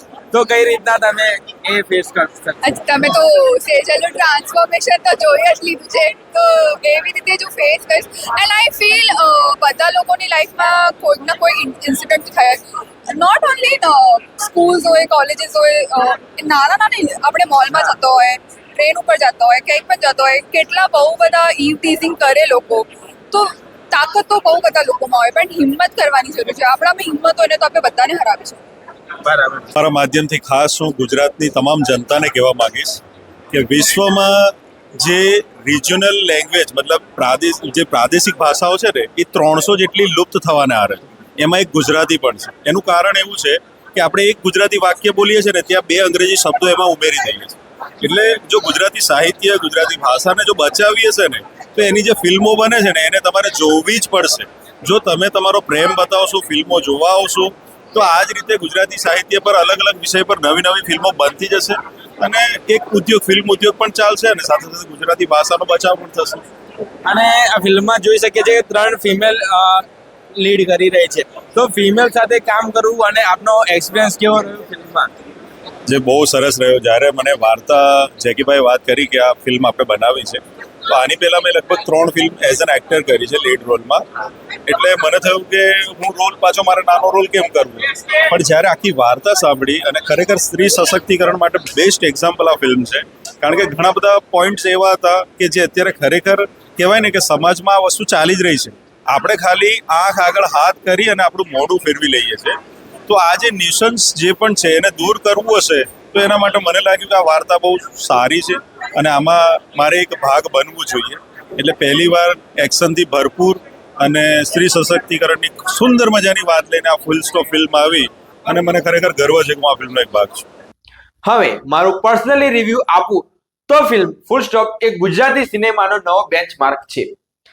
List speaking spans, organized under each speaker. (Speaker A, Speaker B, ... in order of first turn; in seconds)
Speaker A: 0.4-2.5, 67.1-69.7, 70.5-74.9
Speaker B: 2.6-28.6
Speaker C: 29.8-34.4, 35.0-66.4, 75.9-84.0, 84.7-102.5, 103.1-120.5
Speaker D: 121.2-127.1